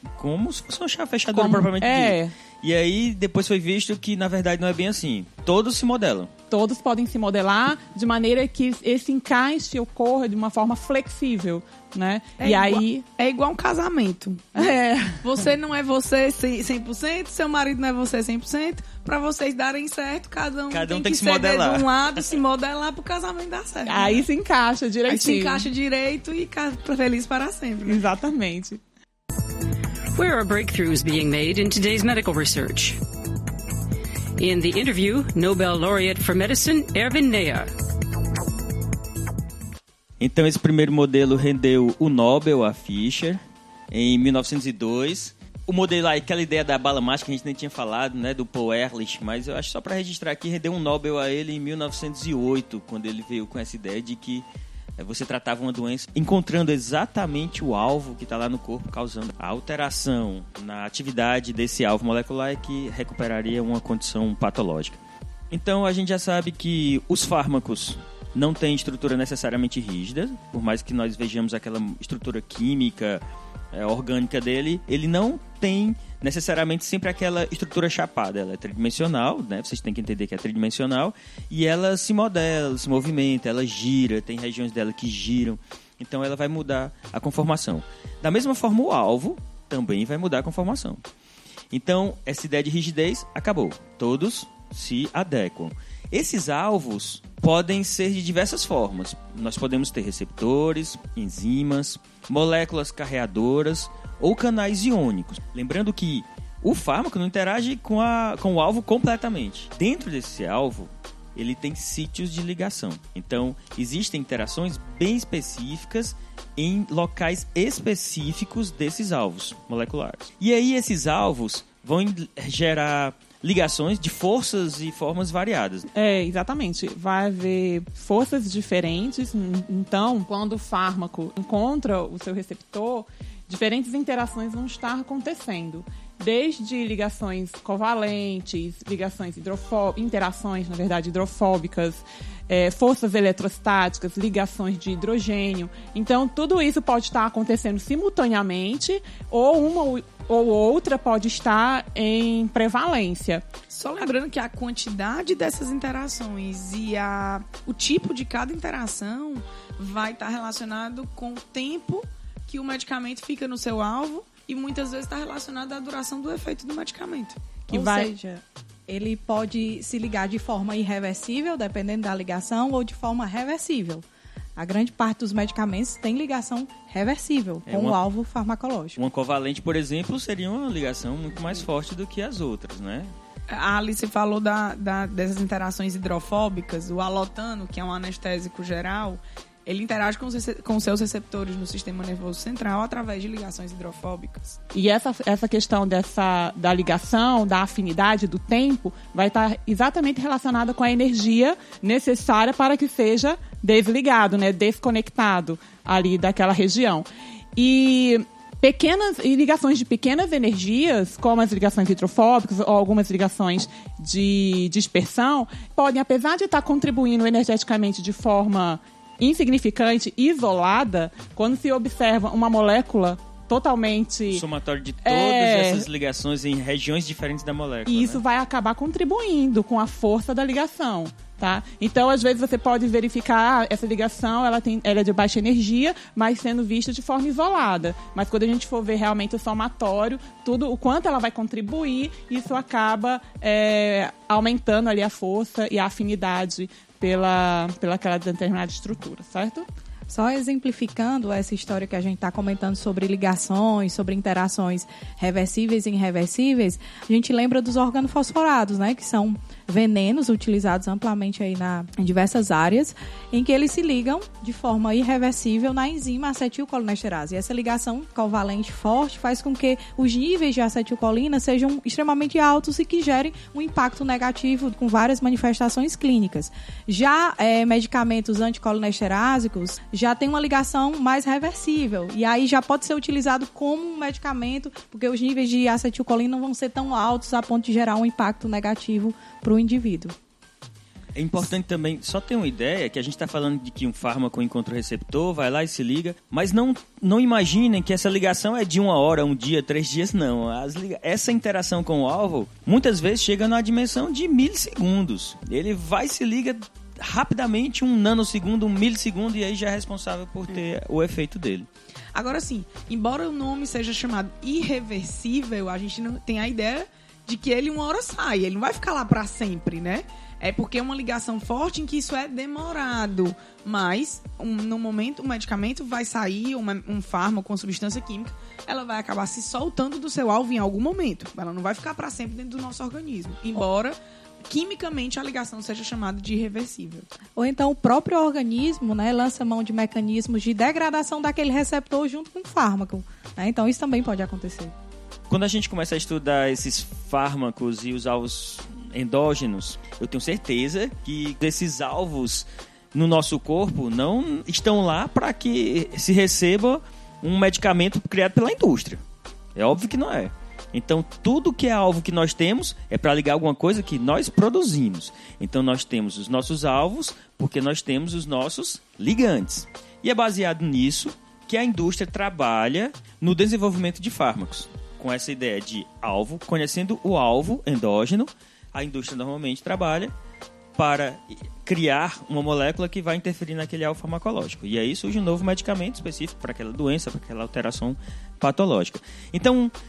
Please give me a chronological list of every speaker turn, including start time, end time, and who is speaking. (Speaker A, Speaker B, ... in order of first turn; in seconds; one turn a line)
Speaker A: 0.2-6.3
Speaker B: 1.3-2.3
Speaker B: 6.5-13.1
Speaker C: 12.4-24.3
Speaker B: 14.6-15.4
Speaker A: 20.7-22.4
Speaker B: 23.9-25.7
Speaker C: 25.1-28.0
Speaker B: 27.8-28.8
Speaker D: 30.1-33.0
Speaker D: 34.4-37.7
Speaker A: 40.2-54.5
Speaker A: 55.0-65.0
Speaker A: 65.5-91.0
Speaker A: 91.7-125.9
Speaker B: 125.9-153.4
Speaker C: 153.7-167.5
Speaker E: 167.7-174.0
Speaker B: 167.7-168.1
Speaker E: 174.6-179.0
Speaker A: 177.7-178.0
Speaker A: 179.0-183.1
Speaker C: 183.5-194.6
Speaker B: 194.7-224.4
Speaker A: 224.3-228.2
Speaker B: 225.0-225.9
Speaker B: 227.9-249.7
Speaker E: 250.1-290.1
Speaker A: 291.1-311.7
Speaker C: 312.1-337.1
Speaker E: 337.4-344.7
Speaker A: 345.3-359.0
Speaker A: 359.6-380.1
Speaker A: 380.8-389.7